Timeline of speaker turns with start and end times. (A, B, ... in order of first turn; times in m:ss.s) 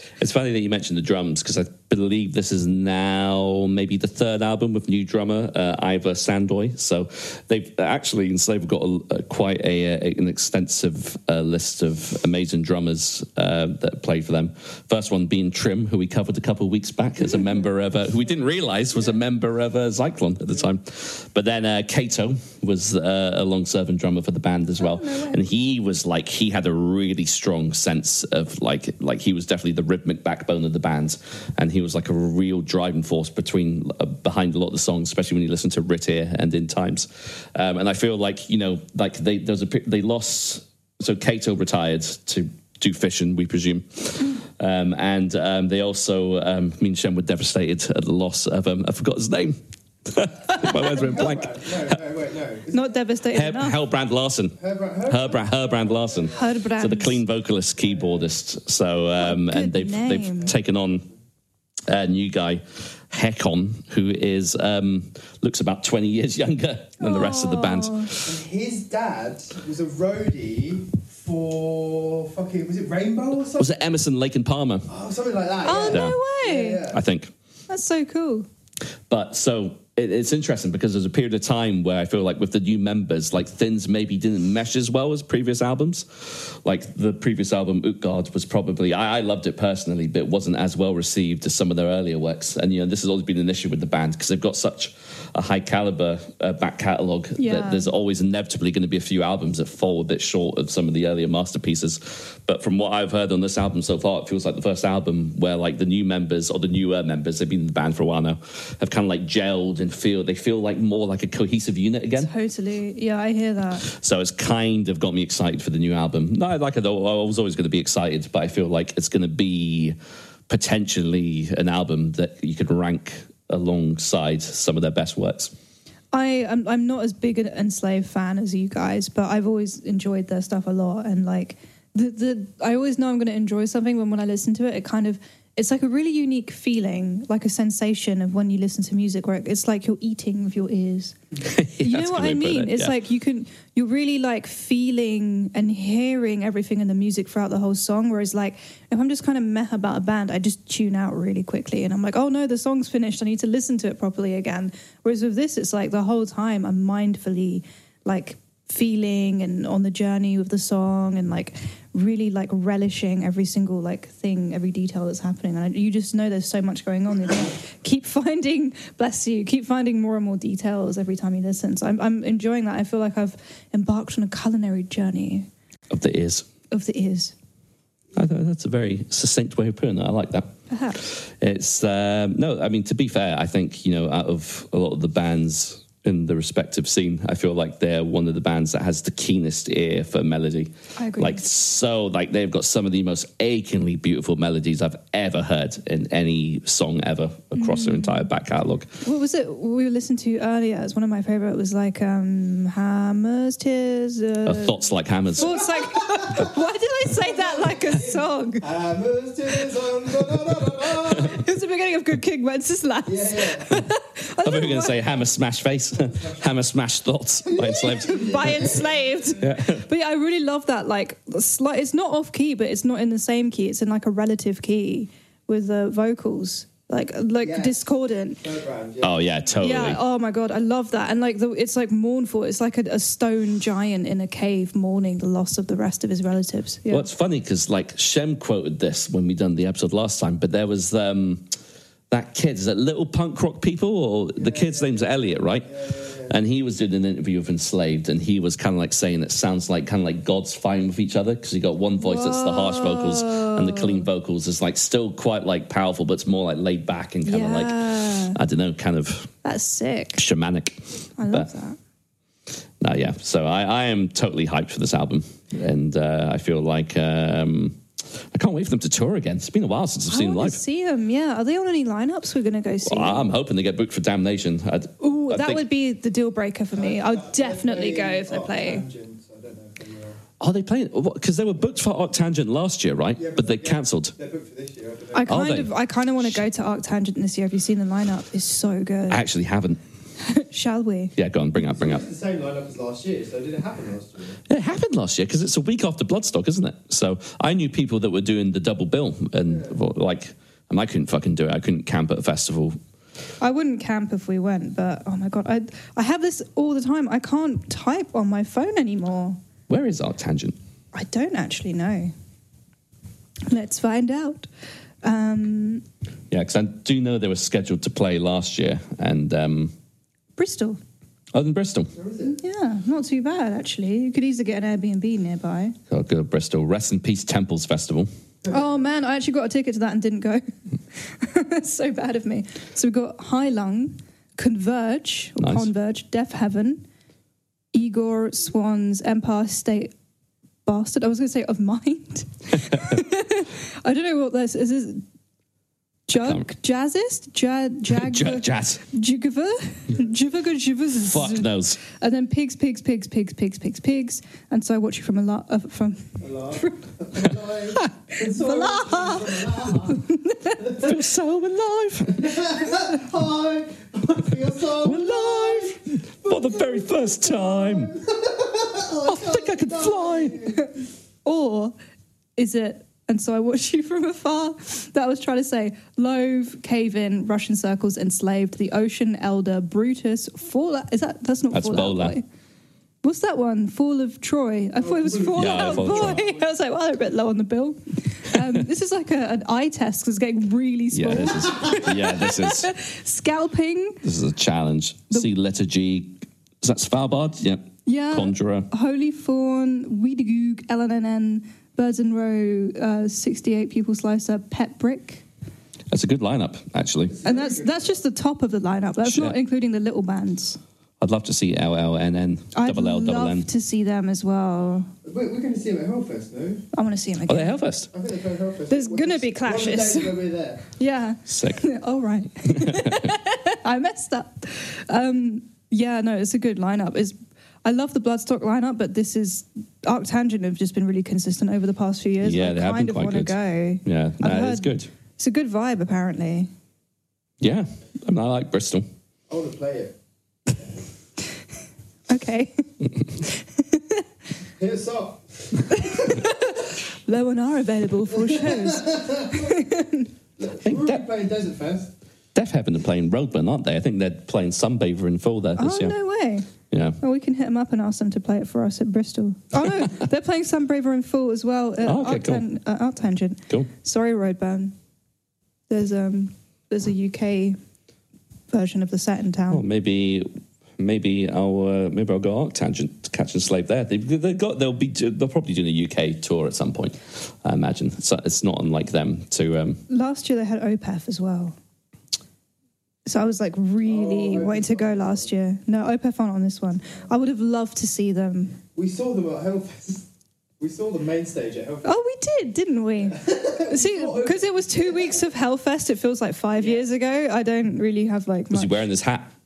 0:00.2-0:52.0 A
0:24.8-0:25.4 B
0:50.6-0:53.0 C
0:52.7-0:53.8 B
0:53.3-1:01.1 A
0:54.6-0:56.4 C
0:56.3-0:57.2 B
0:57.8-0:58.2 C
0:59.2-1:00.5 B
1:01.9-1:08.3 A
1:07.0-1:08.1 B
1:08.2-1:13.8 C
1:13.6-1:14.9 A
1:14.9-1:17.0 C
1:15.6-1:16.8 B
1:15.8-1:16.2 A
1:16.9-1:17.3 A
1:17.7-1:18.5 B
1:19.1-1:52.3 A
1:37.4-1:37.9 B
1:52.2-1:53.9 B
1:53.8-2:00.0 A
2:00.5-2:05.5 A
2:06.1-2:21.2 B
2:21.4-2:23.0 A
2:21.8-2:55.5 B
2:55.9-2:56.5 A
2:56.7-2:57.3 B
2:58.2-3:18.9 A
3:00.7-3:01.0 B
3:11.0-3:11.4 B
3:17.6-3:18.3 B
3:19.0-3:24.8 B
3:24.4-3:25.6 A
3:25.4-3:26.5 C
3:25.4-3:28.6 B
3:27.2-3:31.4 C
3:31.1-3:35.0 B
3:33.1-3:33.8 C
3:34.4-3:38.8 A
3:36.0-3:36.5 C
3:37.5-3:39.4 C
3:37.7-3:48.4 B
3:39.4-3:39.8 A
3:47.4-3:47.8 C
3:48.4-3:49.3 C
3:49.0-3:50.0 A
3:49.6-3:57.1 B
3:56.9-4:01.5 A
4:02.1-4:05.7 A
4:04.4-4:06.4 C
4:06.3-4:19.3 A
4:12.0-4:14.0 B
4:17.2-4:18.4 B
4:19.4-4:20.2 B
4:20.2-4:21.5 A
4:21.2-4:21.8 B
4:22.8-4:30.6 A
4:30.1-4:33.3 B
4:32.8-4:35.6 A
4:35.0-4:38.8 B
4:36.8-4:40.2 C
4:40.4-4:44.1 A
4:43.2-4:45.3 C
4:45.1-4:49.2 B
4:45.3-4:45.7 A
4:49.1-4:49.8 A
4:50.2-4:51.1 B
4:51.2-4:52.1 A
4:51.6-4:54.4 C
4:54.5-5:02.8 A
4:59.5-4:59.7 C
5:03.4-5:09.4 B
5:09.7-5:10.6 A
5:10.9-5:12.1 B
5:13.5-5:14.5 B
5:15.0-5:15.8 B
5:16.3-5:19.7 A
5:20.4-5:20.8 B
5:21.3-5:21.9 A
5:22.0-5:22.4 C
5:22.2-5:25.8 B
5:25.9-5:28.1 A
5:28.5-5:30.4 B
5:31.0-5:36.8 B
5:35.4-5:35.7 A
5:37.7-5:39.9 B
5:40.6-5:45.0 B
5:46.1-5:56.8 B
5:46.2-5:46.4 A
5:47.9-5:48.8 A
5:51.0-5:51.8 A
5:56.2-6:00.0 C
5:57.7-6:00.9 B
6:00.6-6:00.9 C
6:00.8-6:02.5 A
6:02.1-6:10.6 C
6:04.8-6:07.9 A
6:09.0-6:10.5 A
6:11.2-6:11.8 B
6:12.4-6:22.2 B
6:21.5-6:22.2 A
6:23.0-6:34.0 B
6:24.8-6:26.4 C
6:25.4-6:26.2 A
6:30.9-6:32.7 A
6:34.0-6:38.7 A
6:37.9-6:45.2 B
6:45.9-6:47.2 A
6:47.1-6:48.0 C
6:47.2-6:50.6 B
6:49.0-6:49.4 A
6:51.0-6:53.5 A
6:52.5-6:54.9 B
6:55.0-6:56.7 C
6:56.7-6:57.6 B
6:57.3-6:57.9 A
6:57.9-7:00.6 C
6:58.7-7:16.5 B
7:01.3-7:01.6 A
7:02.5-7:03.1 A
7:12.2-7:14.9 A
7:17.4-7:18.9 A
7:19.3-7:20.0 C
7:22.1-7:24.0 B
7:24.6-7:26.3 C
7:25.7-7:30.1 B
7:28.1-7:29.6 C
7:30.4-7:31.9 C
7:30.6-7:31.0 A
7:32.4-7:36.0 A
7:35.6-7:36.5 B
7:36.7-7:37.0 A
7:37.0-7:44.7 B
7:41.8-7:42.4 A
7:45.7-7:47.6 B
7:48.5-7:49.6 B
7:49.5-7:59.8 A
7:59.9-8:01.6 B
8:03.1-8:08.6 B
8:03.8-8:05.3 C
8:08.8-8:10.1 C
8:10.6-8:11.9 C
8:11.8-8:18.8 B
8:13.1-8:15.2 C
8:16.6-8:16.8 C
8:18.5-8:19.3 A